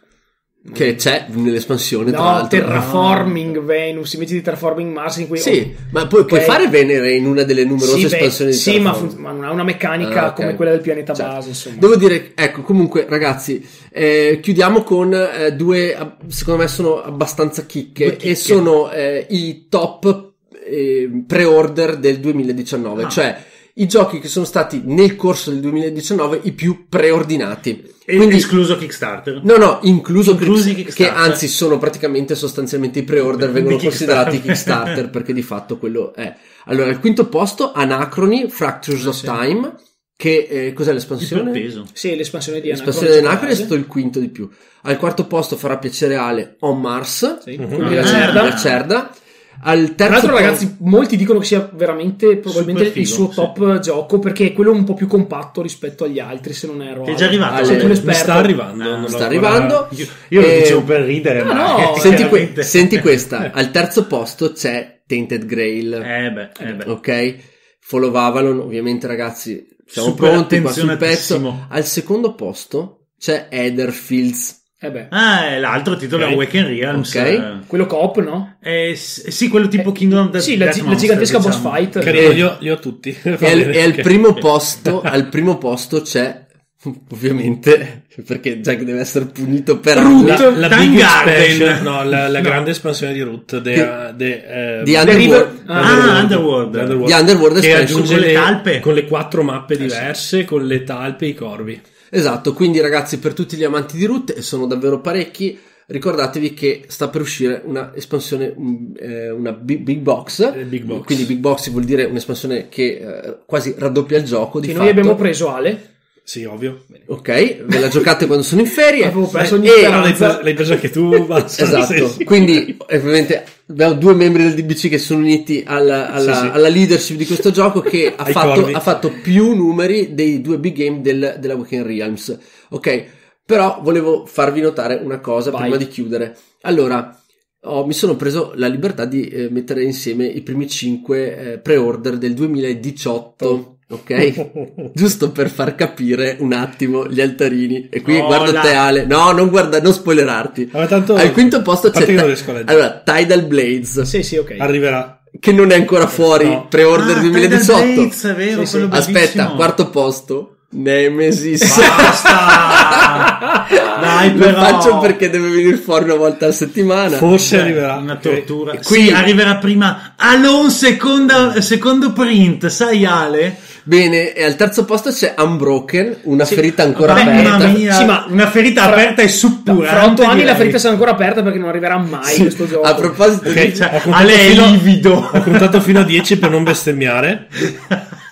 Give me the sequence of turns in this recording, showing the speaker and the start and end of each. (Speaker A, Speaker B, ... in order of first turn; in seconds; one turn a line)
Speaker A: 0.7-2.9
Speaker B: 2.0-6.6
Speaker C: 2.7-3.4
Speaker A: 5.4-9.2
Speaker B: 7.8-12.0
Speaker A: 10.0-28.5
Speaker C: 18.0-18.6
Speaker C: 28.1-29.4
Speaker A: 29.4-41.6
Speaker C: 30.2-31.4
Speaker C: 33.3-35.0
Speaker B: 39.0-39.4
Speaker C: 41.2-41.9
Speaker B: 41.9-43.7
Speaker A: 42.7-50.7
Speaker B: 47.5-48.6
Speaker D: 47.6-48.0
Speaker C: 47.8-48.8
Speaker B: 50.0-58.6
Speaker C: 52.5-53.5
Speaker C: 57.0-58.0
Speaker A: 57.5-58.0
Speaker D: 57.7-59.8
Speaker C: 58.8-63.1
Speaker A: 59.0-60.9
Speaker B: 61.4-62.4
Speaker A: 61.8-66.1
Speaker C: 66.0-66.9
Speaker A: 66.8-74.6
Speaker C: 69.9-71.6
Speaker B: 74.8-75.1
Speaker C: 75.1-77.7
Speaker A: 76.2-76.4
Speaker A: 76.9-77.5
Speaker B: 77.7-78.5
Speaker C: 78.6-82.3
Speaker B: 79.8-82.4
Speaker D: 82.0-84.3
Speaker A: 82.1-82.4
Speaker A: 83.4-90.5
Speaker B: 89.9-90.7
Speaker D: 90.2-101.8
Speaker C: 90.4-92.0
Speaker A: 94.8-96.2
Speaker C: 95.0-97.0
Speaker B: 95.6-96.1
Speaker A: 97.0-98.2
Speaker C: 97.7-98.9
Speaker A: 102.1-115.2
Speaker D: 110.5-111.3
Speaker B: 114.6-115.8
Speaker D: 116.2-116.9
Speaker A: 117.1-120.1
Speaker B: 119.0-121.2
Speaker D: 119.3-122.7
Speaker A: 121.5-154.1
Speaker D: 126.2-126.6
Speaker D: 128.2-128.8
Speaker B: 135.5-135.8
Speaker C: 148.0-148.8
Speaker D: 150.7-152.8
Speaker B: 154.1-154.7
Speaker D: 154.6-155.2
Speaker A: 155.3-158.1
Speaker D: 156.3-156.6
Speaker C: 156.8-159.7
Speaker B: 158.5-158.9
Speaker A: 158.9-167.3
Speaker C: 161.6-165.2
Speaker D: 167.1-168.5
Speaker C: 167.4-173.6
Speaker A: 168.7-169.2
Speaker A: 173.8-177.8
Speaker C: 176.5-180.8
Speaker B: 177.1-179.1
Speaker B: 179.6-183.2
Speaker A: 182.2-183.8
Speaker C: 183.4-186.0
Speaker D: 183.4-187.7
Speaker C: 187.7-187.9